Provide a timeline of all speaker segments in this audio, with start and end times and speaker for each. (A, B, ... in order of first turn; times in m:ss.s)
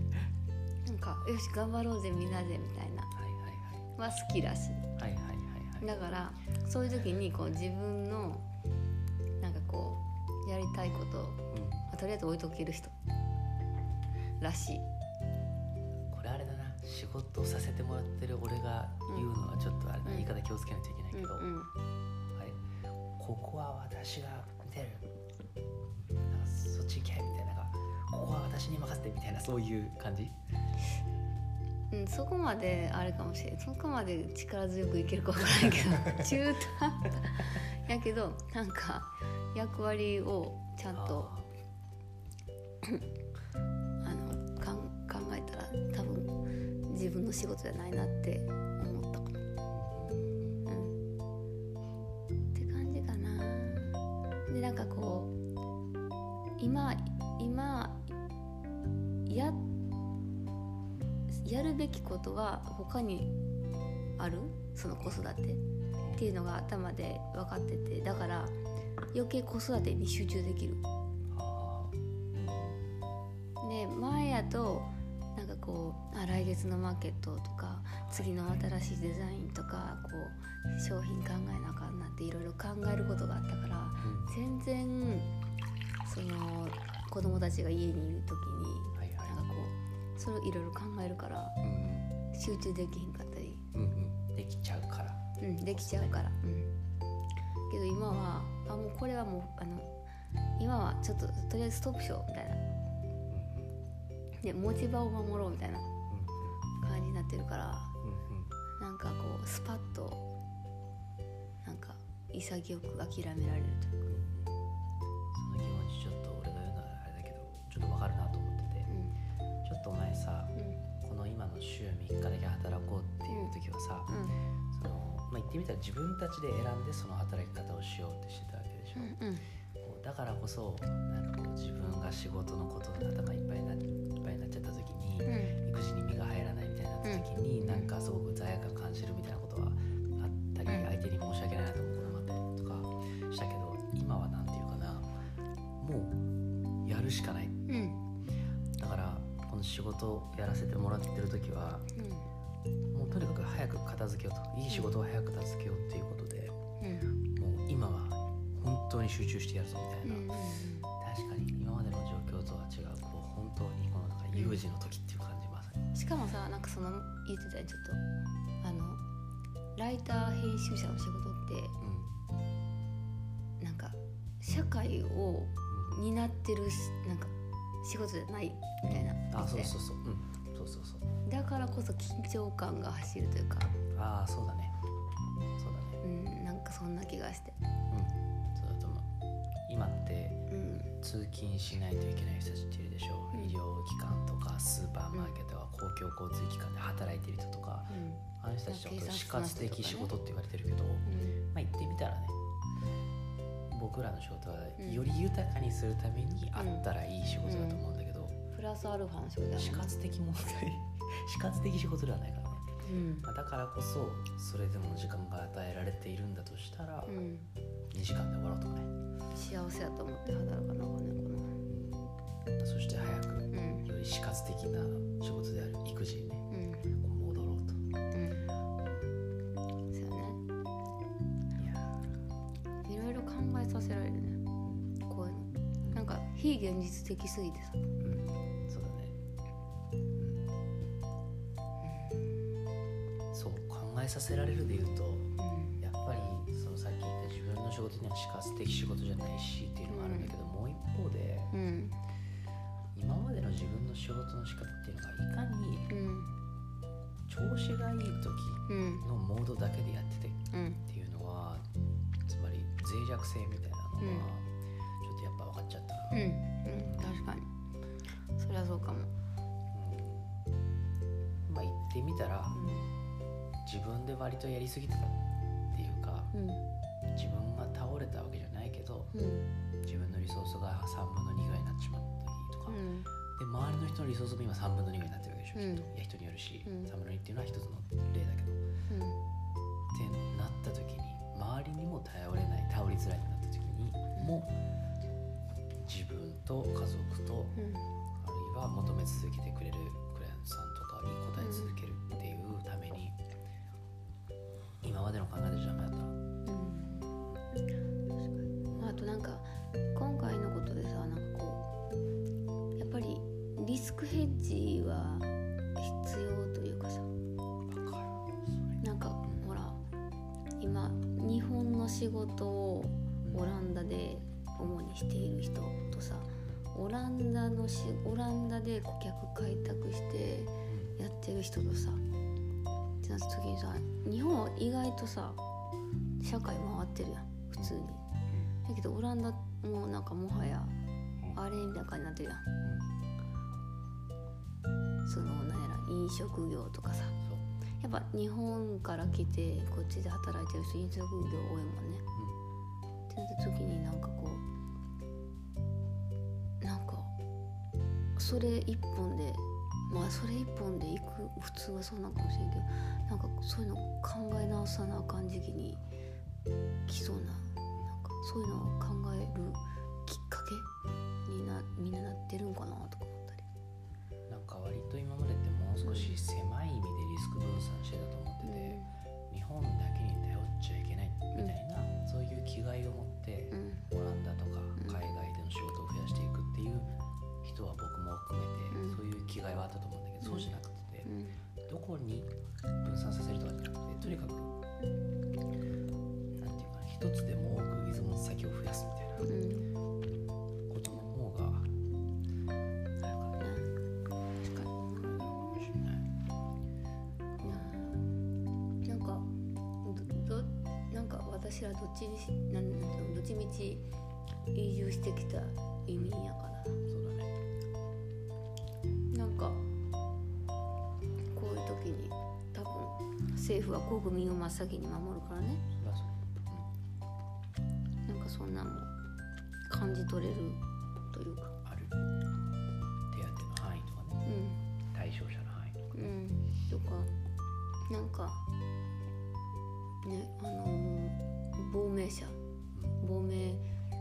0:00.8-0:03.1 A
0:03.1-0:03.8 B
0:04.0-0:04.9 A
0:05.0-0:05.9 B
0:05.8-0:08.4 A
0:09.4-0:12.9 A
0:11.5-0:11.9 B
0:14.4-0:14.9 A
0:16.1-0:21.5 B
0:20.0-0:20.3 A
0:21.1-0:21.7 A
0:22.3-0:22.6 B
0:23.2-0:25.1 B
0:26.3-0:30.4 B
0:31.9-0:41.3 A
0:36.0-0:36.2 B
0:40.9-0:41.5 B
0:44.0-0:46.3 A
0:46.9-0:49.4 A
0:49.7-0:50.6 B
0:50.6-0:50.9 A
0:52.5-0:54.0 A
0:54.5-0:55.3 A
0:56.6-0:58.1 A
0:59.3-0:59.6 A
1:01.3-1:03.3 A
1:04.2-1:05.6 A
1:05.0-1:05.3 B
1:06.1-1:08.6 A
1:09.1-1:10.8 A
1:11.3-1:13.0 B
1:13.6-1:25.3 A
1:18.1-1:18.6 B
1:24.0-1:24.3 B
1:26.0-1:31.6 A
1:28.9-1:29.4 B
1:31.6-1:32.1 B
1:32.3-1:33.6 A
1:33.7-1:36.2 B
1:35.4-1:36.7 A
1:37.7-1:39.9 A
1:40.6-1:42.6 A
1:43.3-1:43.8 B
1:44.4-1:45.9 A
1:46.1-1:46.6 B
1:46.8-1:47.9 A
1:48.0-1:48.5 B
1:48.8-1:50.2 A
1:51.6-1:54.0 A
1:54.1-1:54.6 B
1:55.3-1:58.9 B
1:59.6-2:04.2 B
2:04.1-2:04.4 A
2:04.7-2:09.2 B
2:08.9-2:09.5 A
2:09.8-2:25.1 B
2:15.2-2:15.6 A
2:17.0-2:17.9 A
2:20.7-2:20.9 A
2:25.8-2:26.2 B
2:26.8-2:27.6 B
2:27.7-2:28.0 A
2:28.8-2:31.9 B
2:31.9-2:32.3 A
2:32.9-2:36.6 B
2:34.7-2:35.0 A
2:36.8-2:37.1 A
2:37.3-2:40.3 B
2:40.0-2:40.9 A
2:41.0-2:45.9 B
2:44.3-2:44.6 A
2:45.9-2:48.0 A
2:48.6-2:49.0 A
2:49.8-2:51.8 A
2:51.8-2:52.1 B
2:53.6-2:57.3 A
2:55.7-2:56.0 B
2:57.8-2:59.7 A
2:58.9-3:01.1 B
3:01.2-3:03.7 A
3:03.9-3:04.8 B
3:05.6-3:06.0 B
3:06.0-3:07.6 A
3:07.9-3:09.1 B
3:09.6-3:22.4 B
3:10.5-3:10.9 A
3:17.9-3:20.1 A
3:21.0-3:21.4 A
3:23.7-3:28.4 B
3:24.8-3:25.0 A
3:26.6-3:26.8 A
3:27.4-3:27.8 A
3:28.5-3:29.9 A
3:29.6-3:37.2 B
3:32.8-3:33.3 A
3:37.1-3:37.5 A
3:37.9-3:38.9 B
3:39.3-3:41.6 A
3:41.7-3:47.8 B
3:43.5-3:43.9 A
3:46.5-3:46.9 A
3:48.1-3:48.5 A
3:48.8-3:49.1 B
3:49.9-3:50.4 A
3:51.5-3:52.0 B
3:52.8-3:54.4 A
3:55.0-3:57.8 A
3:58.0-3:59.2 B
4:00.2-4:00.5 B
4:03.3-4:11.5 B
4:05.4-4:05.8 A
4:09.9-4:10.3 A
4:11.5-4:12.0 A
4:12.9-4:15.9 B
4:15.9-4:16.3 A
4:17.3-4:21.6 B
4:18.7-4:19.0 A
4:20.5-4:20.8 A
4:22.2-4:26.2 B
4:24.0-4:24.3 A
4:26.1-4:27.5 A
4:26.8-4:27.3 B
4:28.4-4:29.1 A
4:29.7-4:30.4 B
4:31.4-4:32.6 B
4:32.5-4:32.9 A
4:33.6-4:35.2 B
4:35.7-4:36.3 B
4:36.3-4:36.6 A
4:37.1-4:39.1 B
4:39.1-4:39.4 A
4:39.8-4:42.8 B
4:42.7-4:43.1 A
4:43.4-4:48.6 B
4:45.5-4:45.9 A
4:46.6-4:46.9 A
4:48.9-4:49.2 A
4:49.9-4:54.6 B
4:54.2-4:54.4 A
4:55.8-4:57.6 B
4:57.6-4:57.8 A
4:58.2-5:03.2 B
5:01.4-5:01.8 A
5:04.8-5:06.1 B
5:06.4-5:07.1 A
5:08.7-5:11.7 A
5:12.8-5:17.1 A
5:17.6-5:18.8 B
5:18.8-5:19.8 A
5:20.6-5:32.0 A
5:23.2-5:23.5 B
5:30.7-5:30.9 B
5:33.0-5:35.4 A
5:36.2-5:38.0 A
5:38.6-5:40.7 A
5:41.3-5:42.5 A
5:42.6-5:42.9 B
5:45.0-5:47.2 A
5:47.8-5:52.0 A
5:53.1-5:54.4 A
5:56.6-5:57.1 A
5:58.2-6:05.8 A
6:06.9-6:10.7 A
6:11.2-6:13.4 A
6:14.3-6:26.9 B
6:15.8-6:16.2 A
6:18.4-6:18.9 A
6:23.5-6:23.8 A
6:27.4-6:31.1 B
6:28.7-6:29.0 A
6:30.2-6:30.5 A
6:31.0-6:31.4 A
6:31.6-6:34.5 B
6:36.3-6:39.3 B
6:39.2-6:39.7 A
6:40.7-6:41.7 B
6:43.0-6:43.6 B
6:43.4-6:43.7 A
6:44.5-6:46.1 B
6:44.6-6:45.6 A
6:47.4-6:47.8 B
6:47.4-6:48.0 A
6:48.8-6:49.3 A
6:49.8-6:53.8 A
6:54.5-6:56.8 A
6:56.0-6:56.2 B
6:56.9-6:57.3 B
6:59.1-6:59.6 A
7:01.3-7:05.6 A
7:05.7-7:06.7 B
7:08.0-7:08.9 A
7:09.7-7:10.6 A
7:11.1-7:11.5 A
7:11.6-7:12.0 B
7:13.1-7:14.2 B
7:14.2-7:14.6 A
7:14.9-7:16.1 B
7:15.9-7:17.1 A
7:17.9-7:18.4 A
7:20.0-7:22.4 A
7:23.0-7:23.6 A